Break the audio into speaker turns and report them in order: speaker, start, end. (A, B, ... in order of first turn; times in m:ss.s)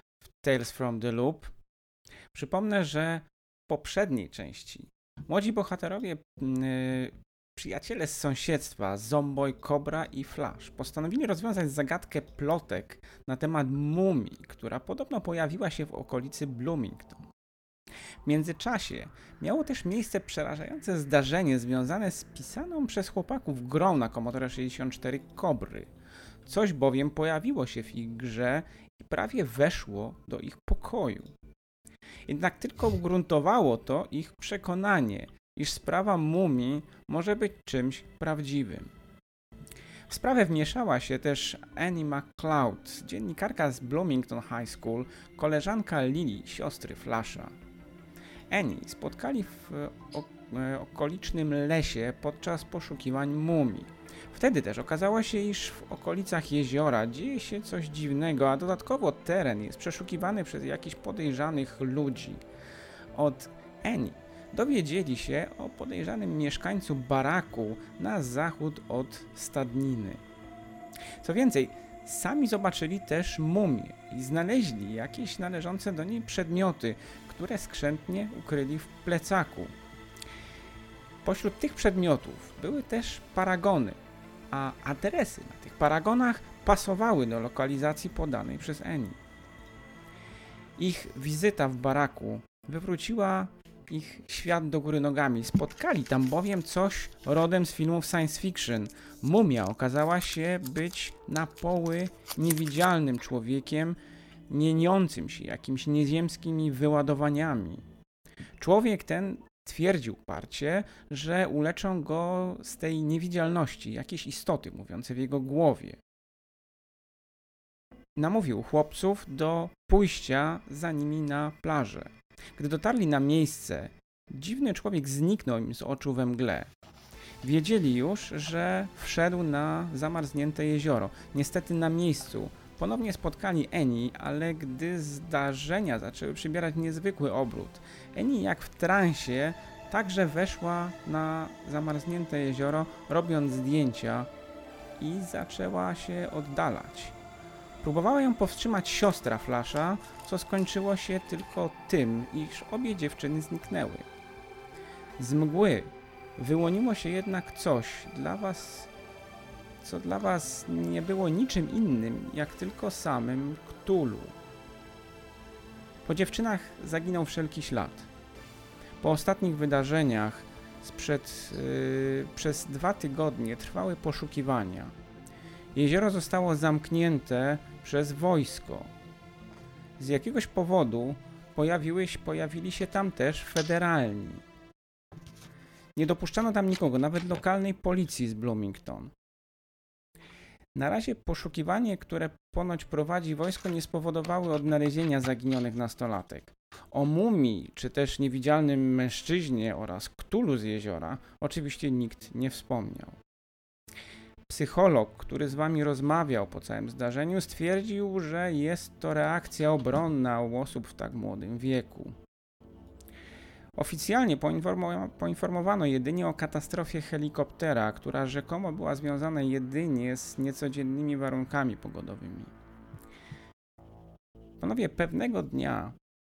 0:00.4-0:01.5 A
0:02.3-0:17.3 A
0:18.2-0:25.9 A
0:26.4-0:31.3 A
0:32.3-0:38.9 A
0:40.1-0:47.6 A
0:48.5-1:02.4 A
1:03.1-1:10.2 A
1:11.2-1:19.8 A
1:21.2-1:24.0 A
1:24.5-1:29.2 A
1:30.8-1:44.0 A
1:44.5-1:47.8 A
1:48.6-1:56.0 A
1:58.2-2:06.7 A
2:07.4-2:24.3 A
2:25.0-2:27.2 A
2:27.8-2:34.1 A
2:35.2-2:38.9 A
2:39.8-2:44.3 A
2:46.1-2:48.1 A
2:49.0-2:54.9 A
2:55.8-2:58.9 A
3:00.0-3:04.4 A
3:06.0-3:09.1 A
3:10.8-3:23.2 A
3:24.5-3:32.2 A
3:33.8-3:42.5 A
3:44.6-3:46.0 A